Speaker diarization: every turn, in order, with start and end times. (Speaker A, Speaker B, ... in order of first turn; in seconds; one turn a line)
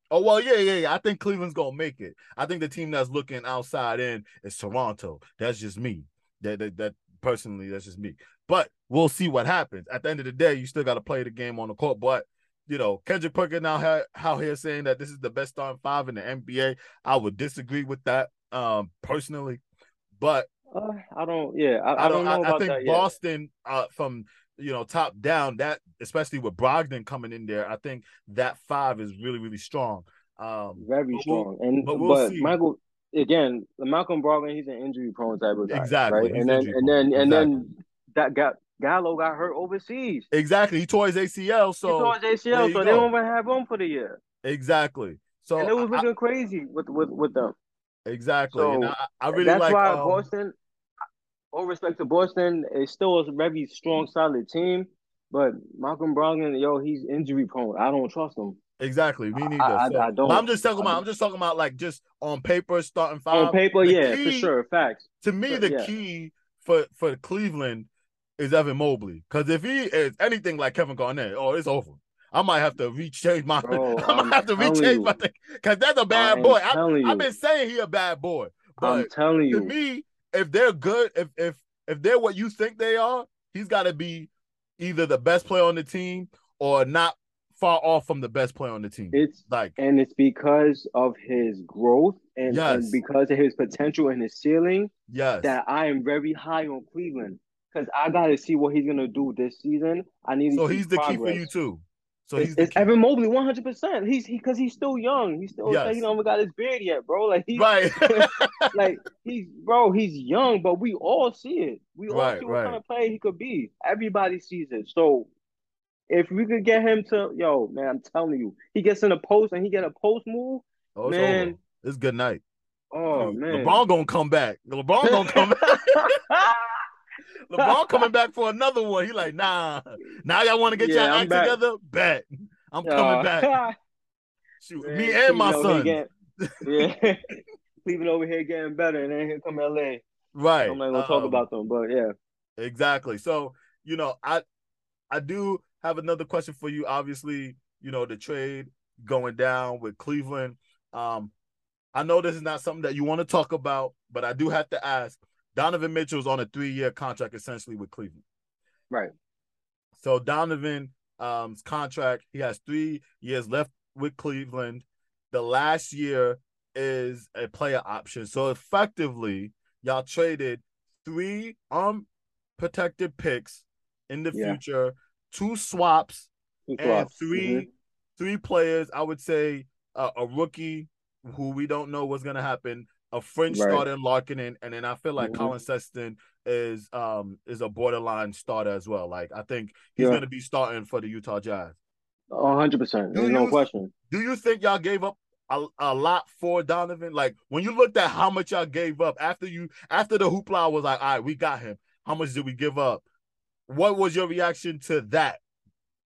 Speaker A: 0.1-19.6
Speaker A: 20.2-20.5
Speaker B: 20.7-23.0
Speaker A: 21.9-32.6
Speaker B: 30.8-40.3
Speaker A: 35.7-37.5
Speaker A: 40.3-43.1
Speaker B: 41.9-44.2
Speaker A: 44.4-46.0
Speaker B: 45.6-47.5
Speaker A: 48.0-50.3
Speaker B: 48.5-50.5
Speaker B: 51.5-58.6
Speaker A: 58.8-64.5
Speaker B: 59.4-61.0
Speaker B: 63.3-65.9
Speaker A: 65.2-89.8
Speaker B: 73.6-75.1
Speaker B: 76.1-77.3
Speaker B: 78.8-79.7
Speaker B: 89.1-94.9
Speaker A: 92.5-93.0
Speaker A: 95.1-95.6
Speaker B: 95.4-101.5
Speaker A: 100.5-102.9
Speaker B: 102.4-115.3
Speaker A: 105.7-106.0
Speaker A: 107.5-108.8
Speaker A: 112.1-112.8
Speaker B: 116.1-121.5
Speaker A: 121.0-122.4
Speaker B: 122.9-123.8
Speaker A: 123.1-126.1
Speaker B: 125.0-126.8
Speaker A: 127.5-133.5
Speaker B: 127.6-128.0
Speaker B: 130.8-131.6
Speaker B: 132.8-133.7
Speaker A: 134.6-136.9
Speaker B: 134.8-136.1
Speaker B: 136.6-140.0
Speaker A: 140.3-141.5
Speaker B: 140.7-142.1
Speaker A: 142.6-144.4
Speaker A: 145.1-151.3
Speaker A: 151.9-158.2
Speaker A: 159.9-172.1
Speaker A: 172.6-191.8
Speaker B: 174.3-174.6
Speaker B: 176.7-177.7
Speaker B: 183.5-183.8
Speaker B: 185.2-185.5
Speaker B: 192.3-193.9
Speaker A: 193.1-203.1
Speaker A: 203.7-205.4